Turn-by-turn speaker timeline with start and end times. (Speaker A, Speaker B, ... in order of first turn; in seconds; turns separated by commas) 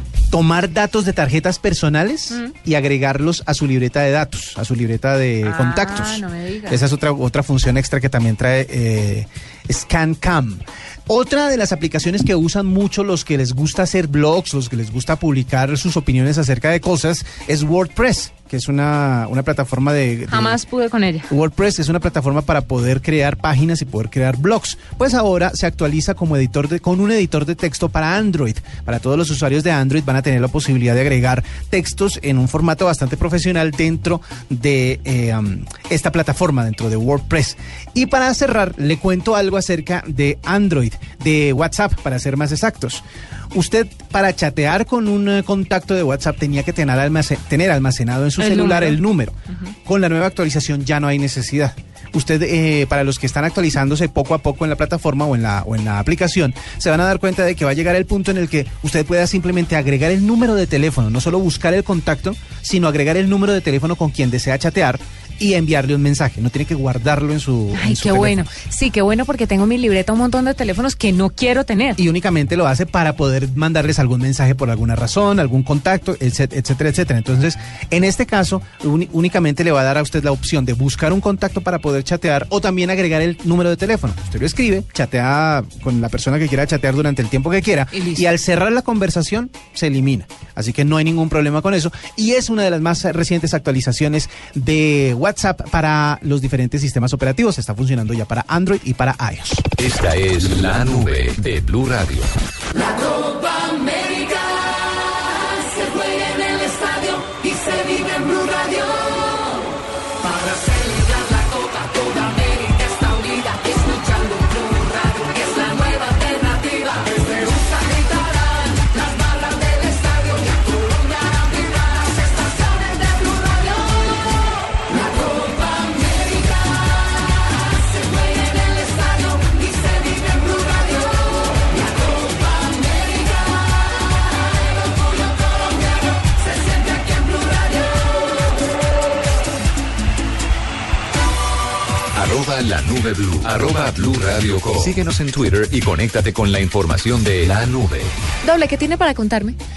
Speaker A: 0.3-20.6, Speaker B: 5.4-6.8, Speaker B: 20.3-21.3, Speaker A: 21.3-68.5, Speaker B: 48.4-49.0, Speaker B: 67.8-72.0, Speaker A: 72.0-99.7, Speaker B: 87.9-88.3, Speaker C: 99.8-102.3, Speaker B: 115.4-115.9, Speaker C: 142.2-148.1, Speaker B: 148.4-149.6